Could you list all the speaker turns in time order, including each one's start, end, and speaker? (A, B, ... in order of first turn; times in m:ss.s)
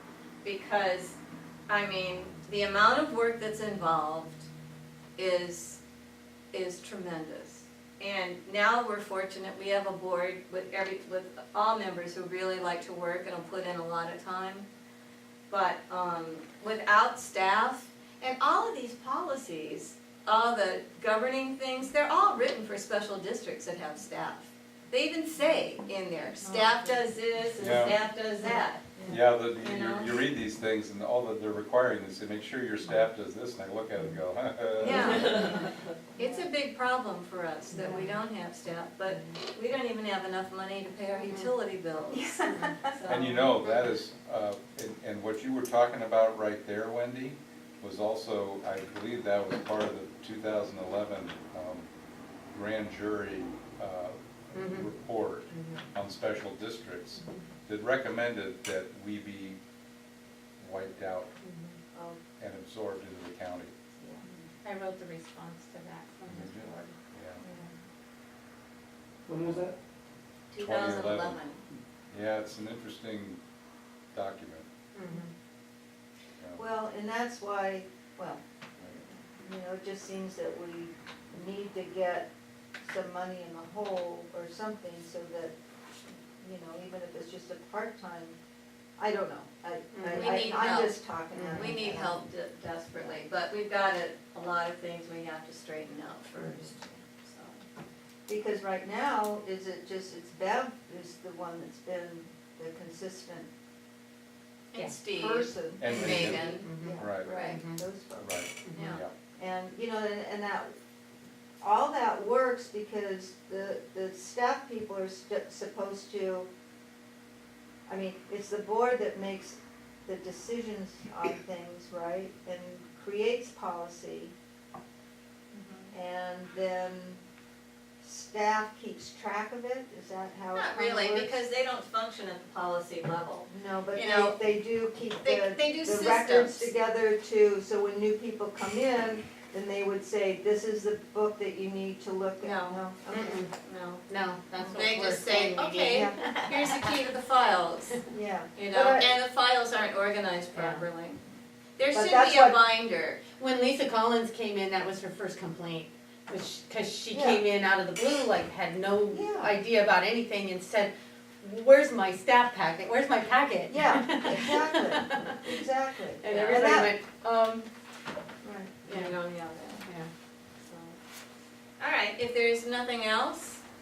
0:00.4-0:01.2 A
0:01.7-0:04.5 A
0:05.2-0:05.8 A
0:06.5-0:14.7 A
0:15.5-0:29.0 A
0:26.4-0:27.0 B
0:27.6-0:27.9 C
0:28.4-0:29.2 B
0:29.1-0:35.6 C
0:29.6-0:30.2 A
0:34.8-0:42.3 A
0:35.2-0:35.6 B
0:37.8-0:38.1 D
0:42.3-0:42.8 D
0:42.9-0:43.7 A
0:43.1-0:51.9 C
0:52.5-0:59.6 C
0:54.6-0:54.9 D
0:55.5-0:55.8 D
1:00.6-1:01.3 C
1:01.4-1:01.8 D
1:02.0-1:02.2 B
1:02.4-1:03.7 C
1:04.0-1:04.3 B
1:04.6-1:07.0 D
1:06.3-1:07.4 C
1:07.4-1:07.7 B
1:09.3-1:09.7 C
1:10.5-1:11.6 A
1:10.6-1:11.4 C
1:12.1-1:13.4 C
1:14.1-1:14.7 C
1:15.0-1:15.3 D
1:16.6-1:22.3 B
1:22.8-1:25.6 B
1:26.4-1:28.4 B
1:29.0-1:32.3 B
1:30.0-1:30.3 D
1:30.2-1:37.6 A
1:31.3-1:31.7 D
1:38.3-1:43.5 B
1:44.7-1:46.7 A
1:45.1-1:48.3 B
1:45.8-1:47.4 C
1:46.5-1:47.8 D
1:47.2-1:47.6 A
1:48.2-1:49.1 C
1:48.6-1:49.0 D
1:48.8-1:49.0 A
1:49.4-1:50.7 B
1:51.6-1:56.5 B
1:57.9-2:04.3 B
2:05.5-2:05.9 A
2:05.9-2:07.2 B
2:08.0-2:11.4 B
2:10.5-2:14.4 A
2:13.5-2:23.4 B
2:15.2-2:16.7 A
2:22.4-2:24.0 A
2:23.1-2:23.5 D
2:24.1-2:26.8 D
2:24.6-2:28.0 A
2:25.9-2:26.2 B
2:28.1-2:29.1 B
2:28.6-2:31.2 A
2:30.6-2:30.8 D
2:31.8-2:33.2 A
2:31.9-2:32.6 B
2:33.3-2:45.6 D
2:37.1-2:37.4 B
2:39.1-2:39.5 B
2:43.7-2:46.9 B
2:46.2-2:47.7 D
2:48.4-2:48.8 B
2:48.8-2:49.9 A
2:50.7-2:51.0 A
2:51.8-2:53.6 A